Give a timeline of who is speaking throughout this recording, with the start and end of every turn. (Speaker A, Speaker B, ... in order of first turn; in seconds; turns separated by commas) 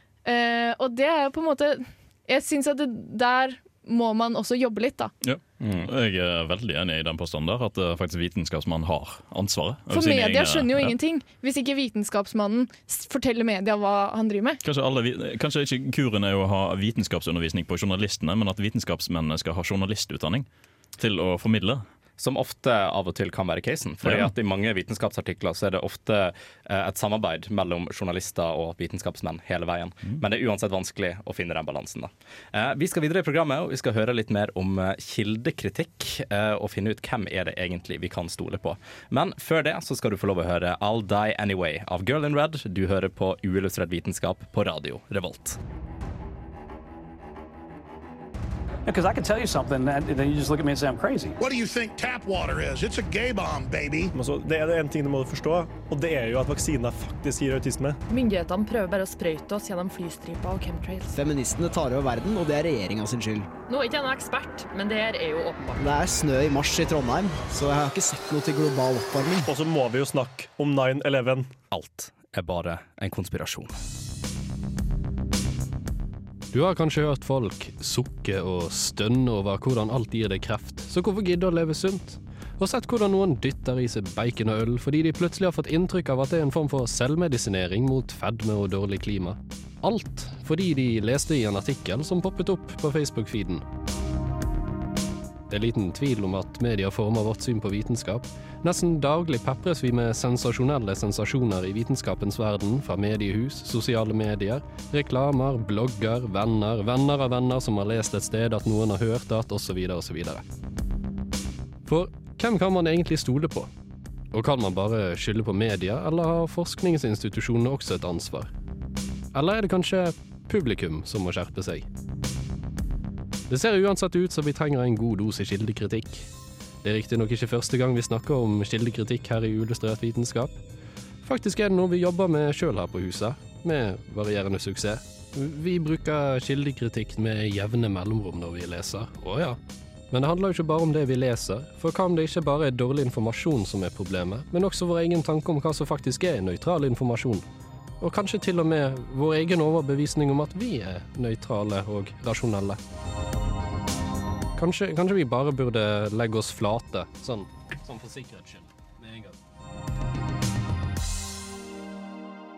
Speaker A: 0.2-5.1, Speaker B: 5.2-10.9, Speaker C: 5.6-5.9, Speaker A: 9.9-14.6, Speaker B: 14.6-21.8, Speaker C: 22.2-45.6, Speaker B: 24.0-24.3, Speaker D: 48.9-51.4, Speaker E: 51.4-54.1, Speaker F: 54.1-58.0, Speaker G: 58.1-61.2, Speaker H: 61.1-63.5, Speaker G: 63.7-65.8, Speaker H: 65.8-69.5, Speaker F: 69.5-71.5, Speaker C: 71.7-73.8, Speaker I: 76.5-93.7, Speaker I: 95.5-110.4, Speaker I: 111.8-113.7, Speaker I: 114.3-118.5, Speaker I: 119.3-121.9, Speaker I: 123.5-126.3, Speaker I: 126.8-130.6, Speaker I: 131.2-139.6, Speaker I: 140.1-147.4, Speaker I: 148.0-152.8, Speaker I: 154.6-159.4